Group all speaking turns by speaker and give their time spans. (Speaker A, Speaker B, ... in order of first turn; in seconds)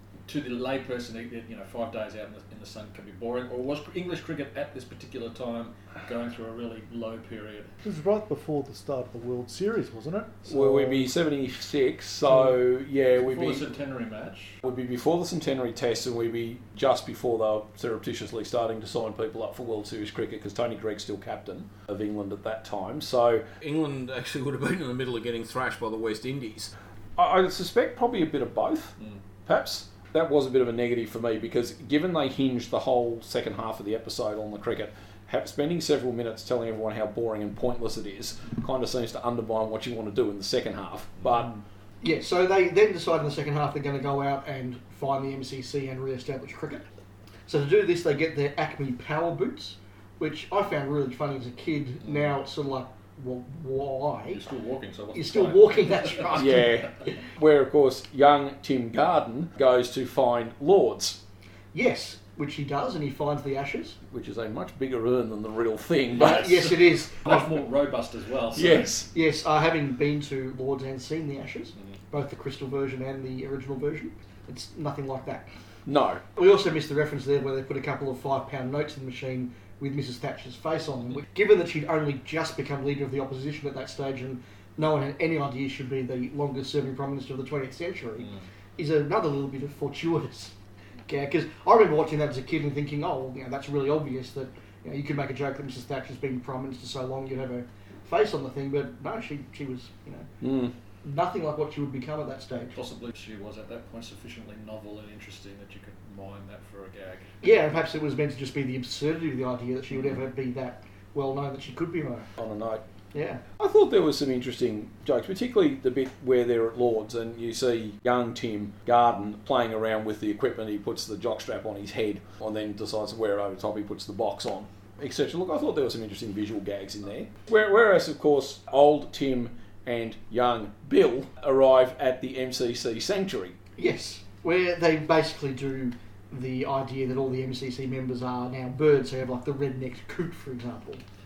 Speaker A: 0.3-7.7, 13.2-14.6, 54.3-56.4, 66.1-69.0, 102.7-107.3
Speaker B: 7.8-11.1
Speaker C: 10.4-13.7, 14.6-28.9, 29.4-41.5, 56.3-61.2, 64.1-66.5, 68.5-69.1, 75.9-76.2, 100.4-100.7, 112.4-112.8, 113.6-133.6
Speaker D: 42.0-46.8, 47.5-54.4, 55.1-56.8, 61.7-64.0, 66.2-67.5, 69.1-75.5, 76.3-90.5, 91.1-100.3, 101.0-102.8, 107.4-112.3, 113.1-113.4, 133.8-141.0